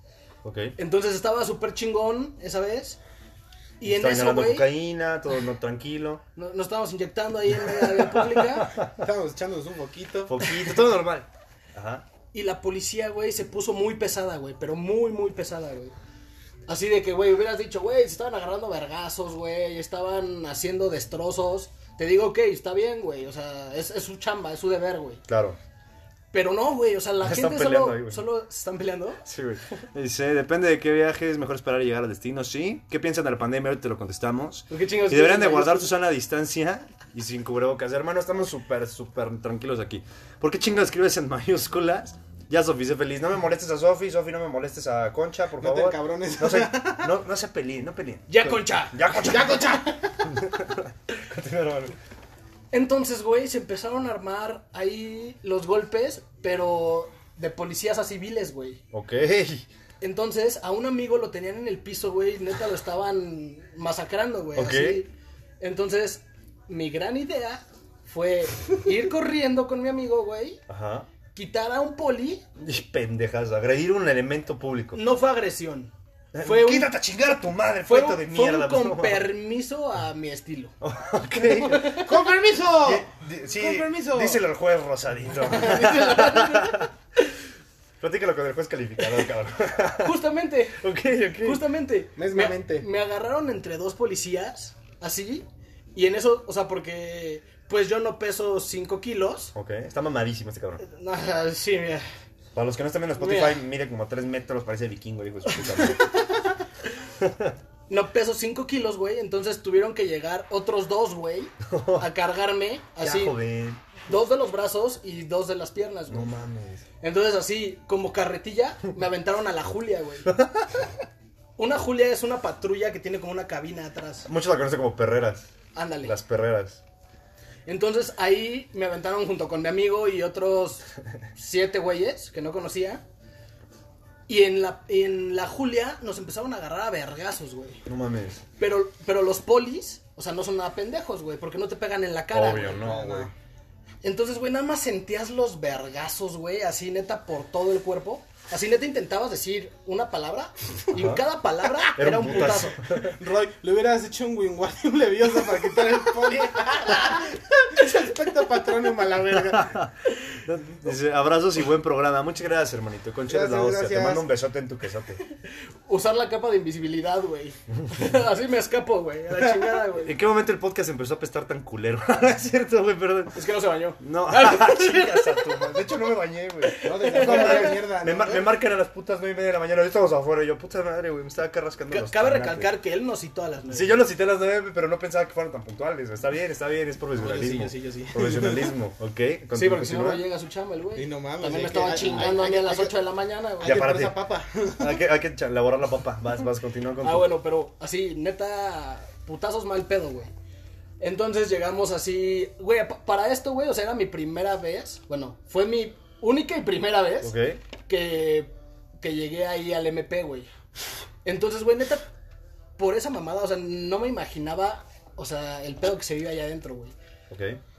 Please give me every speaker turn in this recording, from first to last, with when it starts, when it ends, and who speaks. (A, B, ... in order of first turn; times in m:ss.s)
0:00.4-0:00.7 A
0:00.8-0:03.0 B
0:03.8-0:04.7 B
0:03.8-0:06.2 A
0:06.4-0:08.7 B
0:08.0-0:08.9 A
0:08.8-0:10.6 C
0:10.3-0:12.0 A
0:12.3-0:15.9 B
0:16.7-0:25.2 B
0:25.3-0:25.6 A
0:26.3-0:29.2 B
0:27.2-0:28.2 A
0:29.2-0:51.9 A
0:34.7-0:35.9 B
0:45.6-0:47.1 C
0:48.3-0:49.3 B
0:49.2-0:50.3 C
0:52.7-0:58.8 B
0:58.9-0:59.7 A
1:00.0-1:10.6 B
1:04.6-1:05.0 A
1:10.7-1:11.1 A
1:11.3-1:12.4 B
1:12.6-1:15.0 A
1:14.9-1:16.9 B
1:16.3-1:19.3 A
1:17.9-1:20.7 B
1:20.8-1:22.2 A
1:21.4-1:22.1 B
1:21.8-1:24.4 C
1:22.8-1:26.9 A
1:25.4-1:26.9 B
1:28.0-1:30.2 A
1:30.0-1:30.8 B
1:30.8-1:31.6 A
1:31.4-1:39.5 B
1:32.2-1:32.9 C
1:39.6-1:40.8 A
1:40.8-1:42.1 B
1:42.5-1:46.1 A
1:43.2-1:43.6 B
1:47.2-1:47.6 A
1:47.9-1:53.4 B
1:51.7-1:52.1 A
1:53.0-1:53.8 A
1:54.1-1:56.3 B
1:56.1-1:56.8 A
1:57.0-2:00.3 B
2:00.3-2:00.7 A
2:01.6-2:04.3 B
2:04.3-2:05.5 A
2:05.8-2:06.1 B
2:06.0-2:06.8 A
2:07.7-2:10.8 B
2:11.4-2:13.0 B
2:14.3-2:17.8 B
2:17.9-2:18.4 A
2:18.6-2:22.9 B
2:22.3-2:23.3 A
2:22.8-2:23.3 C
2:24.0-2:32.8 B
2:30.9-2:31.2 A
2:32.0-2:33.2 A
2:32.4-2:39.8 C
2:39.4-2:45.2 A
2:43.3-2:44.3 C
2:45.9-2:50.2 B
2:50.0-2:53.4 A
2:53.3-2:55.7 B
2:54.0-3:02.7 A
2:56.6-2:57.8 B
2:56.8-2:58.5 C
3:01.9-3:04.0 B
3:03.7-3:10.2 A
3:07.2-3:08.7 C
3:09.5-3:13.8 B
3:11.0-3:13.0 C
3:13.6-3:15.0 C
3:13.6-3:14.2 A
3:14.8-3:17.3 A
3:17.0-3:20.3 B
3:21.0-3:27.3 B
3:27.2-3:27.6 A
3:27.9-3:30.5 B
3:31.2-3:32.1 B
3:32.8-3:37.0 B
3:37.3-3:37.6 A